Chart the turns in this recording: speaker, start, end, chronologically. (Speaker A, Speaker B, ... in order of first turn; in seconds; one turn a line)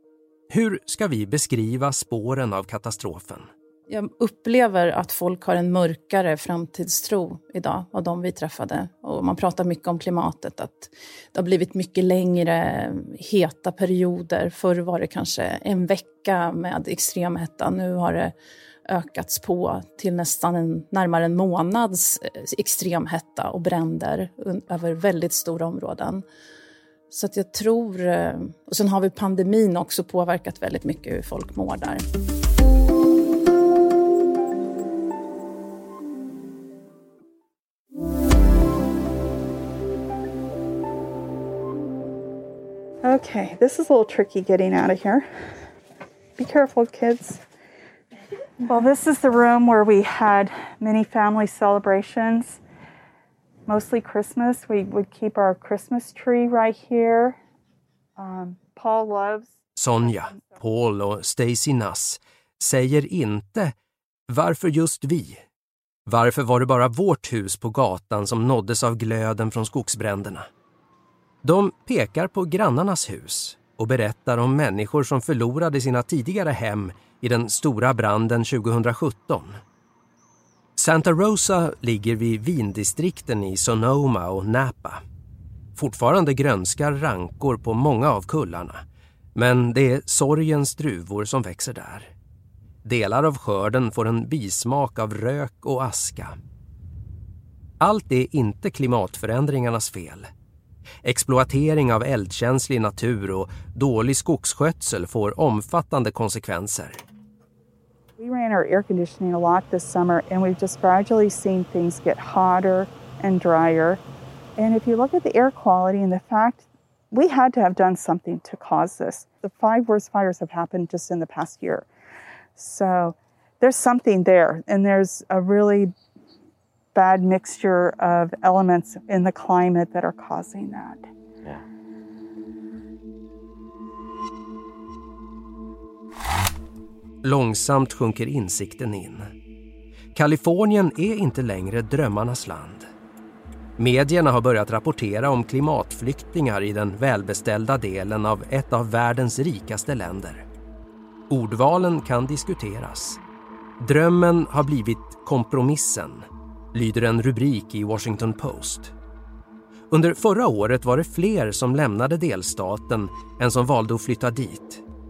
Speaker A: 0.5-3.5
Speaker B: 3.9-18.3
Speaker B: 18.9-26.2
Speaker B: 27.1-32.0
Speaker C: 43.0-45.2
Speaker C: 46.4-47.4
Speaker C: 48.6-52.6
Speaker C: 53.7-57.4
Speaker C: 58.2-59.5
Speaker A: 59.8-63.7
Speaker C: 60.1-60.4
Speaker A: 64.3-65.4
Speaker A: 66.1-70.5
Speaker A: 71.4-79.5
Speaker A: 80.8-85.0
Speaker A: 85.8-88.8
Speaker A: 89.3-92.1
Speaker A: 92.8-96.3
Speaker A: 97.8-100.3
Speaker A: 101.0-107.0
Speaker C: 108.2-114.0
Speaker C: 114.6-121.9
Speaker C: 122.5-125.9
Speaker C: 126.9-131.1
Speaker A: 137.2-139.2
Speaker A: 140.1-142.9
Speaker A: 143.8-150.4
Speaker A: 151.3-153.2
Speaker A: 153.8-158.9
Speaker A: 159.9-164.8